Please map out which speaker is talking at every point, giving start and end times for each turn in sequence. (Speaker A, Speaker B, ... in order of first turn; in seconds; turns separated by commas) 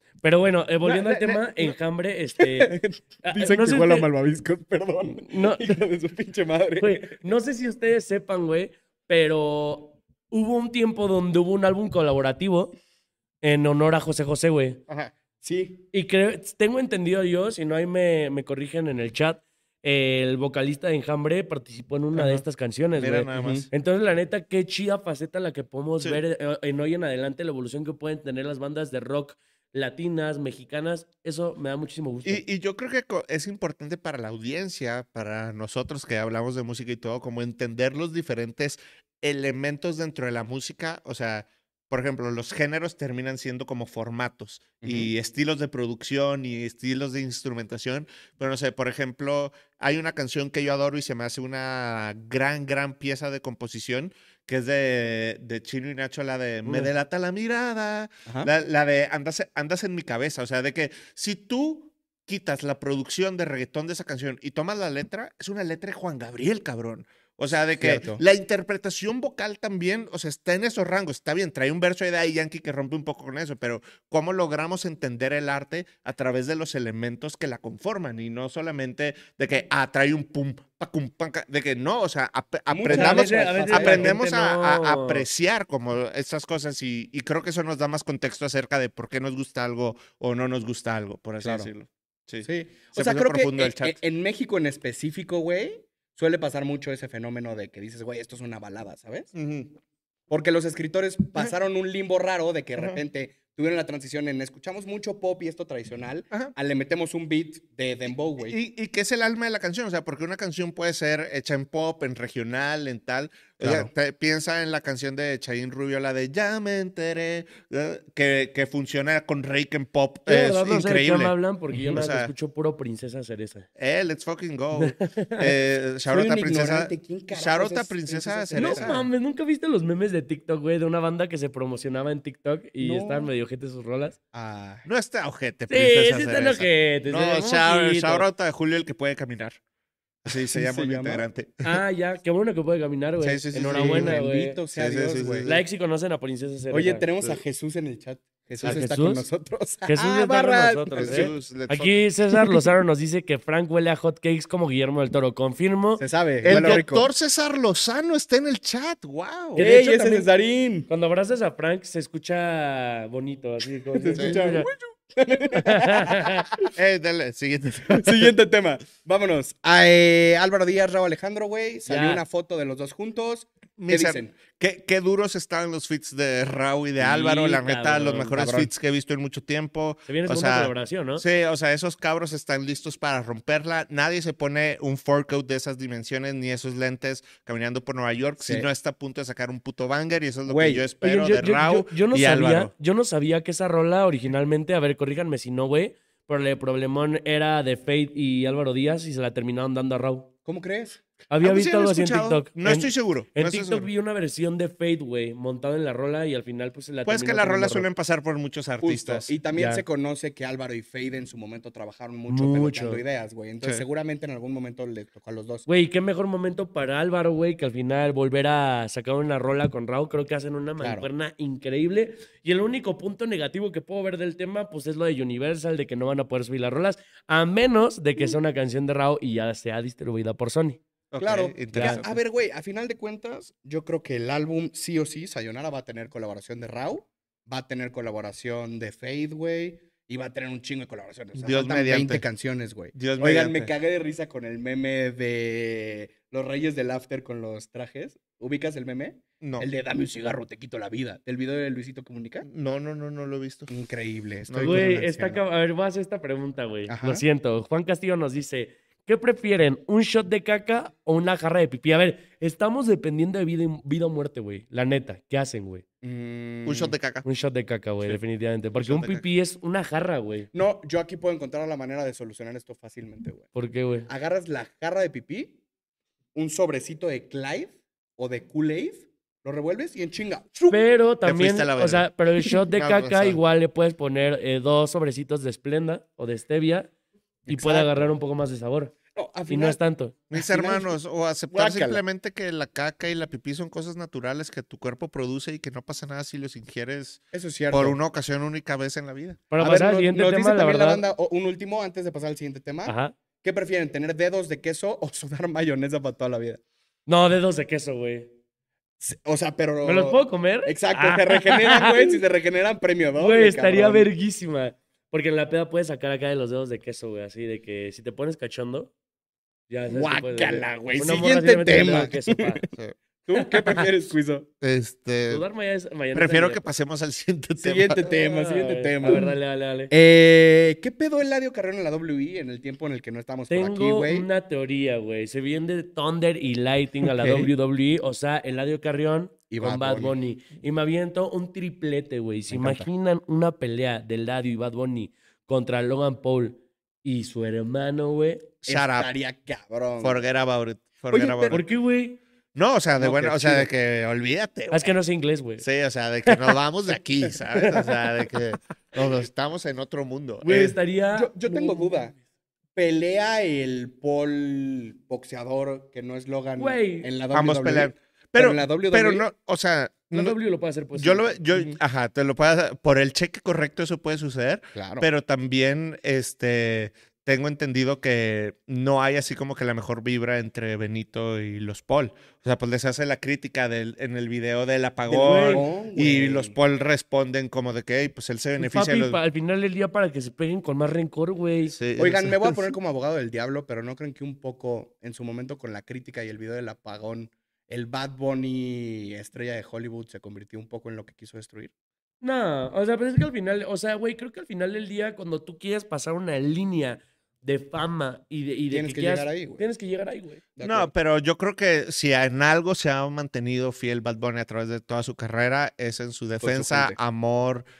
Speaker A: 0.2-4.1, Speaker B: 0.8-1.7, Speaker B: 2.4-7.2, Speaker A: 5.1-5.8, Speaker A: 6.8-12.7, Speaker A: 13.4-14.8, Speaker B: 14.9-15.8, Speaker A: 15.9-32.4, Speaker C: 22.1-22.4, Speaker C: 22.9-23.7, Speaker B: 23.3-23.7, Speaker C: 32.2-94.0, Speaker B: 44.8-45.1, Speaker B: 67.8-68.2, Speaker B: 82.7-84.2, Speaker A: 82.9-85.2, Speaker B: 91.4-91.7, Speaker B: 92.4-99.3, Speaker C: 99.3-99.7, Speaker B: 100.3-108.6, Speaker C: 108.5-122.3, Speaker B: 113.6-113.9, Speaker A: 120.2-123.7, Speaker C: 123.8-129.1, Speaker A: 124.7-125.5, Speaker B: 126.0-129.1, Speaker A: 128.6-134.2, Speaker B: 132.8-133.3, Speaker B: 134.3-134.8, Speaker C: 134.8-139.6, Speaker A: 135.7-138.3, Speaker B: 140.2-141.2, Speaker C: 140.2-141.8, Speaker A: 141.6-144.6, Speaker C: 143.2-144.2, Speaker B: 143.7-145.5, Speaker C: 144.8-145.6, Speaker A: 145.4-147.0, Speaker B: 146.7-151.3, Speaker A: 148.6-149.3, Speaker A: 149.9-156.0, Speaker C: 150.9-152.0, Speaker B: 156.0-157.1, Speaker C: 156.4-159.7, Speaker B: 159.5-160.9, Speaker A: 159.6-160.3, Speaker A: 160.9-164.7, Speaker B: 163.9-166.7, Speaker A: 165.5-166.5, Speaker C: 166.6-168.3, Speaker B: 167.9-174.3, Speaker A: 171.8-172.2, Speaker C: 173.8-192.7, Speaker A: 177.0-178.4, Speaker B: 178.3-178.7, Speaker A: 180.1-181.2, Speaker B: 188.4-188.7, Speaker B: 190.4-190.9, Speaker A: 191.0-200.3, Speaker B: 200.4-201.0, Speaker A: 201.3-207.9, Speaker C: 201.4-203.9, Speaker C: 207.0-209.3, Speaker B: 208.8-215.7, Speaker A: 209.6-209.8, Speaker A: 212.3-213.0, Speaker A: 215.7-230.8, Speaker B: 220.8-221.1, Speaker C: 231.1-232.1, Speaker B: 231.2-252.4, Speaker A: 231.7-232.0, Speaker C: 241.3-242.2, Speaker C: 242.9-243.7, Speaker C: 249.4-249.7, Speaker C: 252.4-253.7, Speaker B: 253.7-255.4, Speaker C: 254.5-255.0, Speaker A: 254.6-265.8, Speaker B: 256.9-257.2, Speaker B: 266.0-266.9, Speaker C: 266.6-267.2, Speaker A: 267.2-270.5, Speaker C: 268.8-269.2, Speaker B: 270.5-273.5, Speaker A: 273.5-274.1, Speaker B: 274.1-275.6, Speaker B: 276.3-280.7, Speaker A: 280.7-286.9, Speaker C: 281.2-283.4, Speaker B: 287.4-287.9, Speaker A: 287.5-288.9, Speaker B: 289.1-289.8, Speaker A: 289.5-290.1, Speaker C: 290.3-299.4, Speaker B: 290.3-290.9, Speaker B: 291.5-292.0, Speaker B: 297.3-298.0, Speaker A: 299.5-301.0, Speaker B: 299.6-306.6, Speaker A: 302.9-303.1, Speaker A: 307.1-308.3, Speaker B: 309.0-314.1, Speaker A: 309.8-312.2, Speaker A: 313.2-318.9, Speaker A: 319.7-322.6, Speaker B: 319.9-322.7, Speaker B: 323.2-324.5, Speaker A: 323.3-323.9, Speaker C: 324.6-325.4, Speaker A: 325.3-326.6, Speaker C: 326.1-328.0, Speaker B: 327.6-329.3, Speaker A: 328.0-329.9, Speaker B: 329.9-334.3, Speaker A: 333.5-348.5, Speaker B: 337.0-337.5, Speaker B: 339.5-340.1, Speaker B: 342.5-342.9, Speaker C: 348.6-349.1, Speaker B: 348.6-350.2, Speaker C: 350.0-351.6, Speaker B: 351.1-351.6, Speaker A: 351.5-352.2, Speaker C: 352.5-354.9, Speaker B: 353.0-353.7, Speaker A: 354.7-355.6, Speaker C: 355.6-360.7, Speaker A: 356.2-356.5, Speaker A: 357.7-358.0, Speaker A: 360.4-362.1, Speaker B: 360.5-362.1, Speaker B: 362.7-369.2, Speaker A: 366.6-367.1, Speaker C: 367.3-370.4, Speaker A: 370.1-371.4, Speaker C: 370.9-389.2, Speaker B: 374.7-375.1, Speaker B: 385.1-386.5, Speaker A: 385.1-385.6, Speaker A: 388.6-391.7, Speaker C: 391.7-392.6, Speaker B: 392.0-401.7, Speaker A: 402.2-410.4, Speaker B: 408.7-409.6, Speaker B: 410.6-410.9, Speaker C: 410.6-417.6, Speaker B: 416.4-417.0